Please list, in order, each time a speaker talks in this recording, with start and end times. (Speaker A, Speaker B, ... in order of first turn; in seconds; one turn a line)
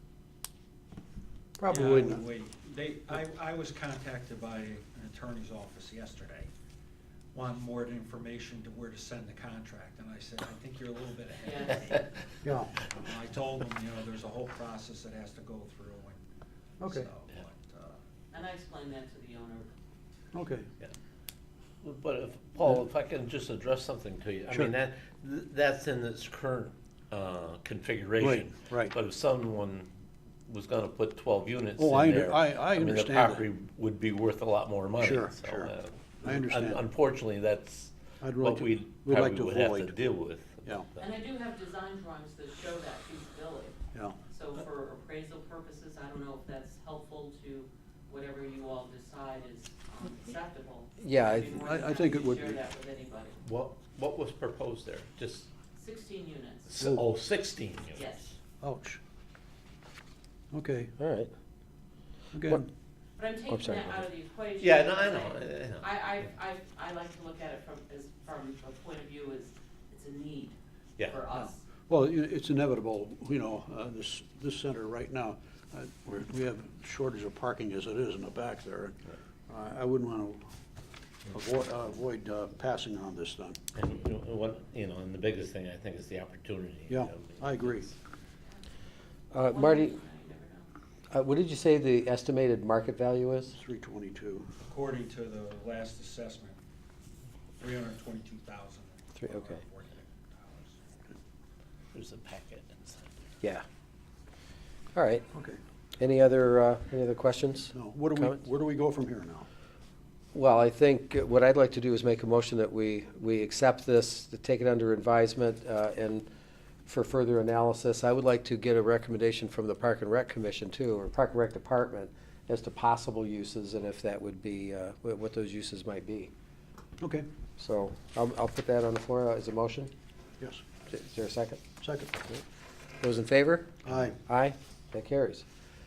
Speaker A: 1.6-2.2
Speaker B: 1.7-6.5
Speaker B: 7.3-12.1
Speaker C: 11.4-11.9
Speaker A: 12.4-12.9
Speaker B: 12.9-16.2
Speaker A: 16.8-17.1
Speaker B: 16.8-18.0
Speaker C: 18.3-19.7
Speaker A: 20.3-20.7
Speaker D: 21.8-29.9
Speaker A: 28.2-28.9
Speaker D: 30.5-41.1
Speaker A: 31.8-33.5
Speaker A: 35.0-36.9
Speaker A: 38.2-40.0
Speaker C: 41.0-43.8
Speaker C: 44.3-53.4
Speaker E: 51.0-51.6
Speaker A: 51.5-52.6
Speaker D: 53.4-55.5
Speaker C: 55.7-56.8
Speaker D: 56.7-58.1
Speaker C: 57.9-58.4
Speaker A: 58.6-59.0
Speaker A: 60.5-60.9
Speaker E: 61.0-61.3
Speaker A: 62.3-62.7
Speaker C: 63.2-71.7
Speaker E: 63.5-64.0
Speaker D: 64.6-65.9
Speaker A: 71.3-80.4
Speaker A: 81.3-83.6
Speaker D: 83.7-88.0
Speaker A: 86.9-87.9
Speaker E: 89.3-90.0
Speaker C: 89.3-90.7
Speaker E: 91.1-93.6
Speaker A: 93.5-94.5
Speaker B: 94.6-96.6
Speaker B: 97.6-100.8
Speaker E: 99.2-99.6
Speaker D: 101.9-103.3
Speaker E: 105.0-105.2
Speaker A: 105.3-105.6
Speaker E: 106.0-108.4
Speaker A: 107.7-109.5
Speaker E: 110.3-116.3
Speaker E: 116.9-126.3
Speaker A: 127.0-127.3
Speaker E: 127.6-129.9
Speaker A: 130.4-130.7
Speaker E: 130.9-131.6
Speaker A: 131.8-132.2
Speaker E: 133.0-135.4
Speaker A: 133.8-134.2